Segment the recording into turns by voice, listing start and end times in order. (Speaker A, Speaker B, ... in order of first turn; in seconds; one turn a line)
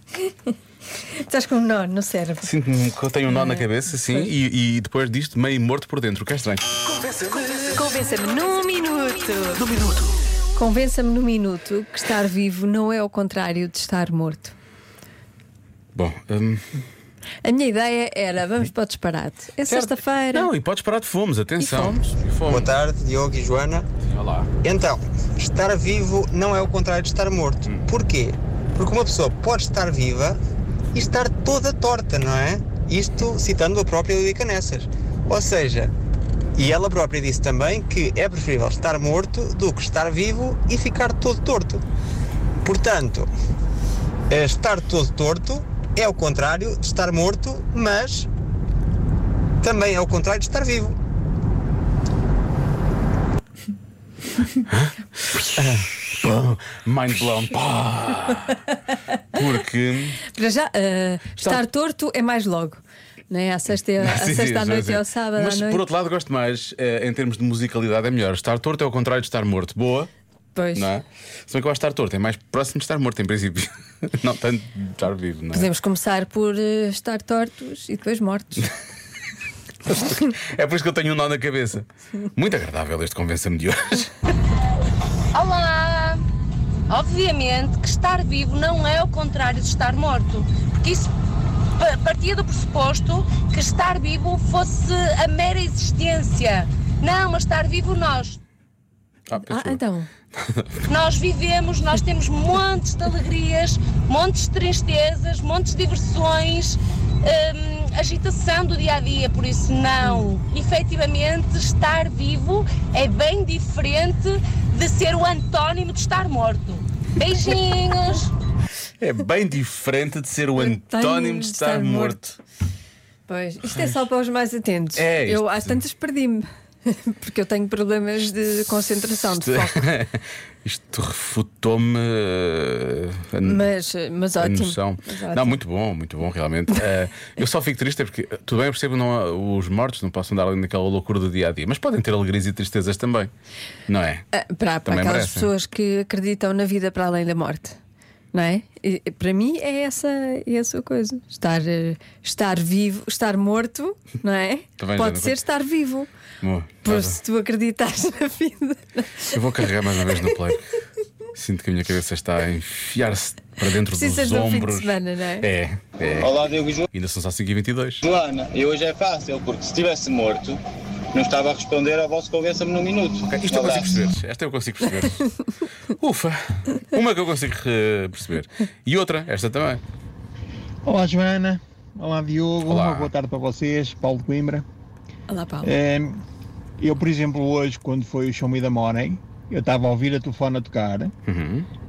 Speaker A: 1.1-2.5
Speaker B: 2.4-6.6
Speaker A: 3.3-4.3
Speaker A: 7.3-9.7
Speaker B: 9.6-10.1
Speaker A: 10.6-14.5
Speaker B: 15.9-16.8
Speaker A: 17.4-20.5
Speaker B: 19.7-22.7
Speaker A: 21.6-22.1
Speaker C: 22.5-23.9
Speaker B: 24.0-24.5
Speaker C: 24.6-30.4
Speaker C: 30.9-35.9
Speaker C: 36.5-41.8
Speaker C: 42.6-43.3
Speaker C: 44.3-48.3
Speaker C: 49.6-50.9
Speaker B: 54.7-58.6
Speaker B: 59.3-60.2
Speaker A: 60.2-65.9
Speaker B: 64.0-70.1
Speaker A: 70.5-70.9
Speaker B: 70.7-75.7
Speaker A: 75.5-78.7
Speaker B: 79.8-84.1
Speaker D: 85.3-86.2
Speaker D: 86.9-91.1
Speaker D: 91.8-98.4
Speaker B: 99.3-100.8
Speaker A: 99.3-100.1
Speaker D: 100.9-118.3
Speaker B: 119.0-122.4
Speaker A: 120.5-122.2
Speaker A: 123.3-129.9
Speaker B: 123.7-124.0
Speaker B: 124.9-125.8
Speaker B: 129.3-133.7
Speaker A: 133.4-135.6
Speaker B: 134.4-143.3
Speaker B: 143.9-144.2
Speaker A: 144.3-147.8
Speaker B: 144.8-145.5
Speaker A: 148.3-156.1
Speaker B: 154.8-155.4
Speaker B: 156.4-157.2
Speaker A: 156.8-159.4
Speaker B: 159.3-160.7
Speaker B: 161.3-166.3
Speaker A: 163.7-165.5
Speaker E: 166.2-166.9
Speaker B: 166.9-168.0
Speaker E: 168.0-170.6
Speaker E: 171.1-174.0
Speaker B: 173.3-175.3
Speaker B: 175.9-179.8
Speaker F: 180.8-184.6
Speaker B: 182.6-183.1
Speaker A: 185.3-185.7
Speaker F: 185.6-186.2
Speaker F: 186.8-191.1
Speaker B: 191.2-191.7